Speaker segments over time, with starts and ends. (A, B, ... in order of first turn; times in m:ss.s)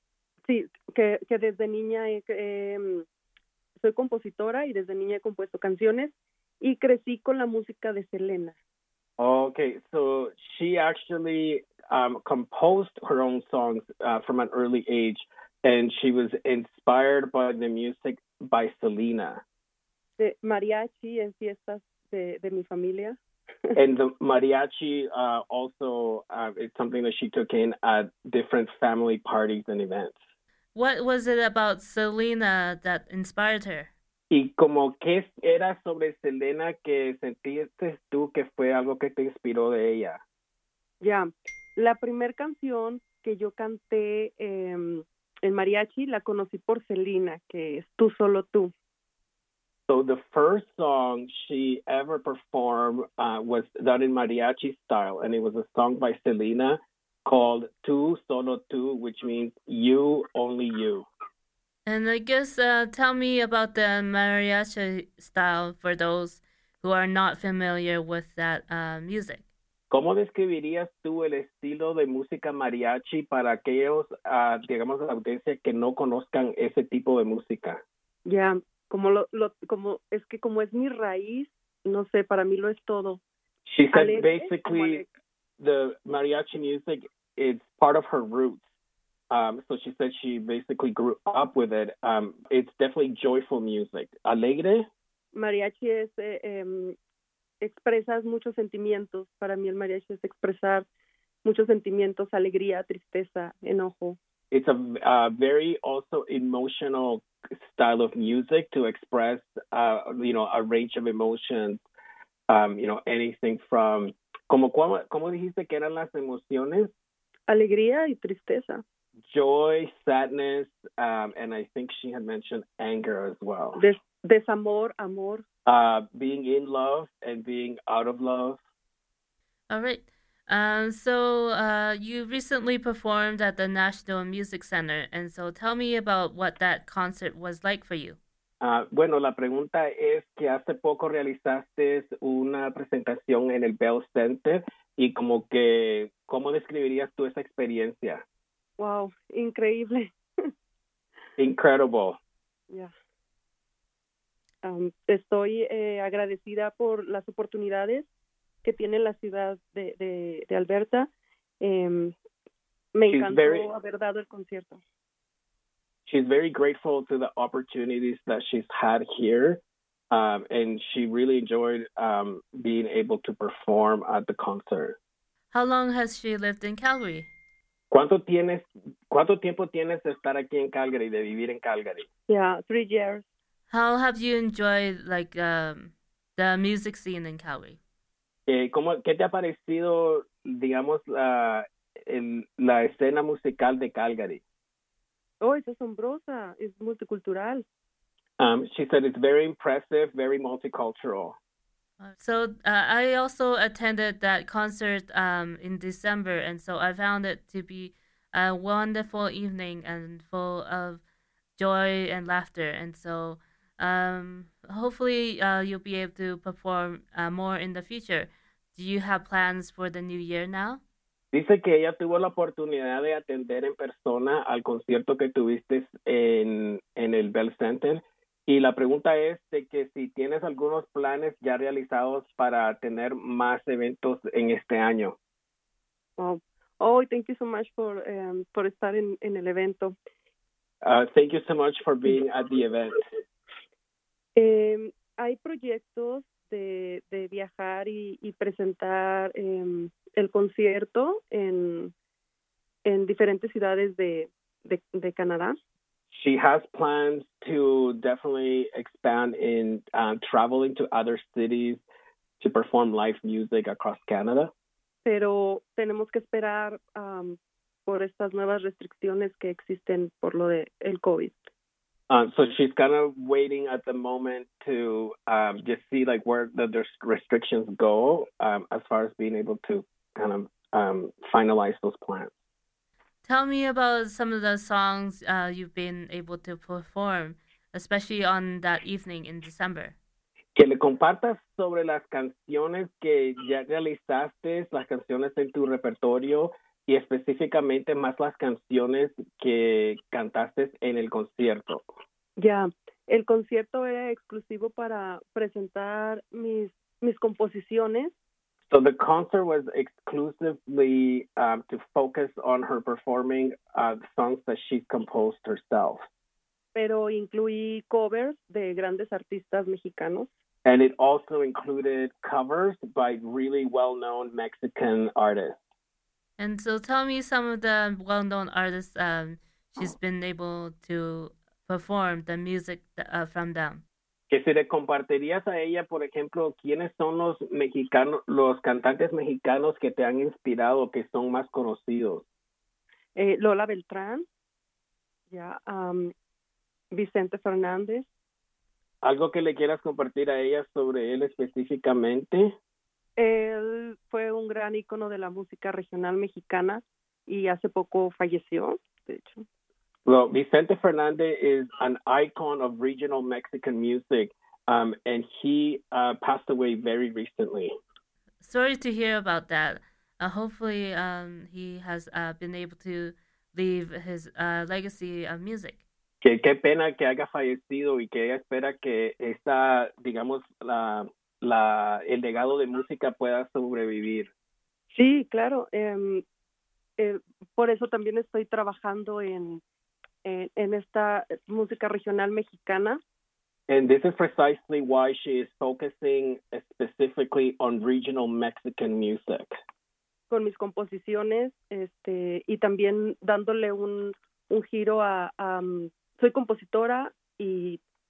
0:00.5-0:03.1 A
0:03.8-0:08.6 A
0:09.2-0:19.4 B
0:20.2-0:23.2 A
0:23.8-0:30.2 B
0:30.8-0:33.9 C
0:34.3-0:40.2 B
0:41.0-0:48.7 A
0:49.9-1:01.1 B
1:01.9-1:09.4 C
1:09.9-1:17.8 B
1:18.3-1:23.2 A
1:23.7-1:25.0 B
1:23.9-1:25.0 A
1:25.6-1:28.6 B
1:29.3-1:34.9 B
1:35.3-1:37.0 A
1:37.6-1:40.8 A
1:41.4-1:44.2 A
1:44.5-1:51.8 B
1:52.5-1:56.9 B
1:57.5-1:58.8 A
1:59.3-2:03.8 B
2:03.8-2:05.4 A
2:05.7-2:08.6 B
2:09.7-2:18.2 C
2:18.6-2:28.2 B
2:28.8-2:30.2 A
2:31.4-2:32.2 B
2:34.6-2:38.0 A
2:38.6-2:41.1 A
2:41.6-2:42.2 A
2:43.0-2:44.8 A
2:43.1-2:43.7 B
2:46.1-2:55.0 B
2:55.5-2:57.3 C
2:57.9-3:02.1 B
3:02.3-3:03.2 A
3:03.7-3:07.8 C
3:08.5-3:14.4 B
3:15.4-3:17.6 A
3:18.4-3:21.4 B
3:22.0-3:31.0 C
3:31.6-3:40.8 C
3:41.3-3:55.2 B
3:56.2-4:00.0 A
4:00.8-4:03.0 B
4:04.4-4:11.9 A
4:12.8-4:15.6 A
4:16.1-4:21.8 B
4:22.4-4:24.5 B
4:25.0-4:31.4 A
4:32.1-4:42.3 B
4:43.2-4:49.9 C
4:50.6-5:01.8 B
5:02.4-5:08.1 A
5:08.7-5:16.0 B
5:16.8-5:20.3 A
5:20.6-5:25.6 B
5:26.4-5:33.8 C
5:34.3-5:42.2 B
5:43.2-5:44.2 A
5:45.3-5:46.1 A
5:46.9-5:48.1 A
5:49.0-5:52.6 B
5:53.2-5:59.4 A
6:00.0-6:07.7 B
6:08.4-6:15.8 C
6:16.2-6:24.3 B
6:24.9-6:26.2 A
6:27.0-6:29.6 A
6:30.2-6:33.0 A
6:33.7-6:39.6 B
6:40.3-6:47.8 A